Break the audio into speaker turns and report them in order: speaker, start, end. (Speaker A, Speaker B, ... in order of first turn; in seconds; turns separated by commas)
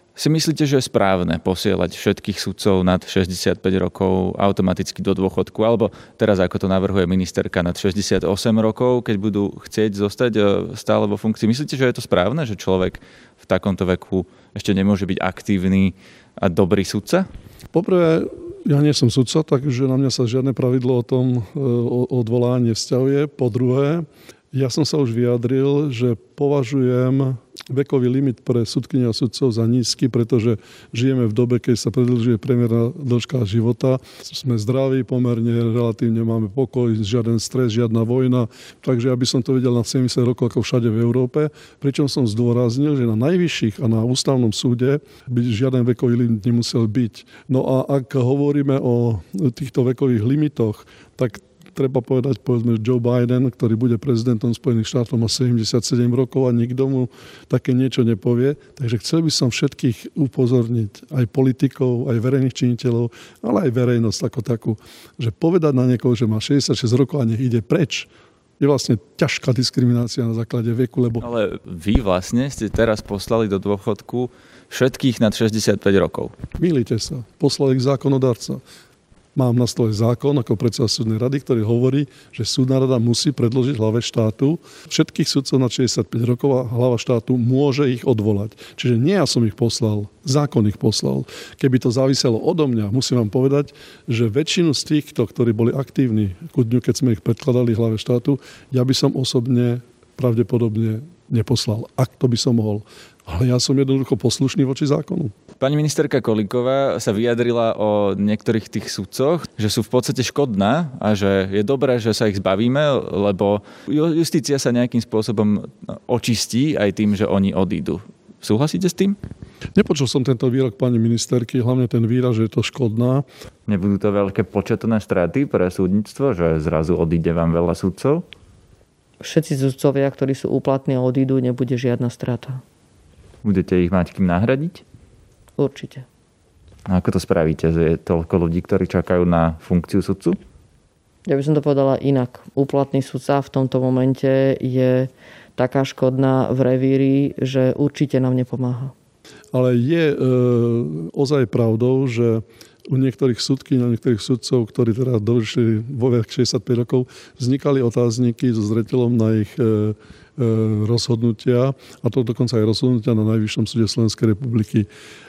Speaker A: 0.2-17.3, Speaker B: 17.7-71.2, Speaker A: 71.2-76.3, Speaker B: 76.6-78.6, Speaker B: 79.3-105.3, Speaker A: 105.6-119.2, Speaker B: 119.8-123.3, Speaker A: 123.7-128.2, Speaker C: 129.2-132.6, Speaker A: 133.4-134.8, Speaker C: 135.6-136.1, Speaker A: 136.9-140.4, Speaker C: 141.3-148.9, Speaker B: 149.5-164.9